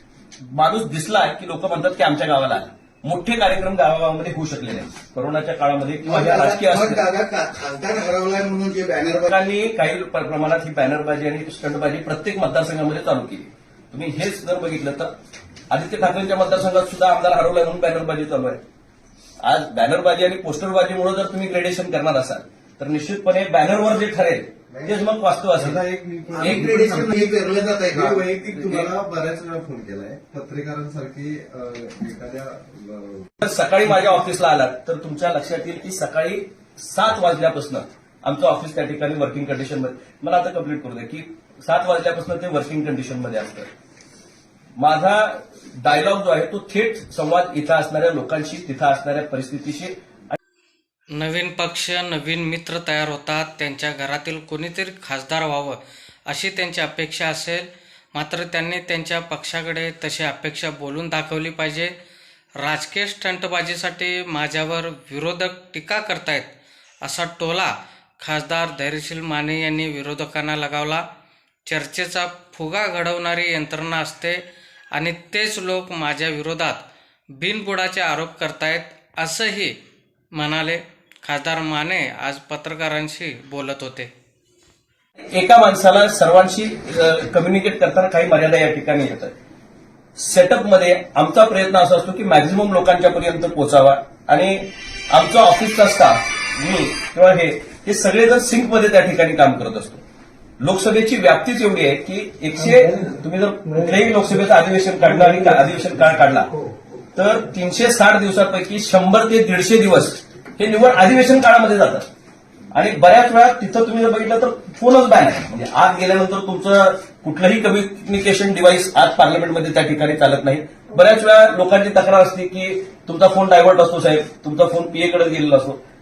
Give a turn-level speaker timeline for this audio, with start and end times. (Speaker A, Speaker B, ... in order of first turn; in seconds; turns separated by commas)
Speaker A: 0.4-7.0, Speaker B: 6.0-9.3, Speaker A: 9.2-15.1, Speaker A: 15.7-18.6, Speaker A: 19.4-25.8, Speaker C: 25.6-27.3, Speaker B: 26.4-28.2, Speaker A: 26.4-27.1, Speaker C: 27.9-33.3, Speaker A: 28.6-28.9, Speaker A: 33.4-43.7, Speaker A: 44.8-50.4, Speaker D: 51.1-55.8, Speaker D: 56.3-61.9, Speaker D: 62.6-66.5, Speaker D: 67.0-71.0, Speaker D: 71.7-74.4, Speaker D: 74.9-76.8, Speaker D: 77.4-79.8, Speaker D: 80.3-84.1, Speaker A: 85.3-89.3, Speaker A: 90.2-100.0, Speaker A: 100.6-106.5, Speaker B: 102.8-103.0, Speaker A: 107.1-112.0, Speaker A: 112.7-125.8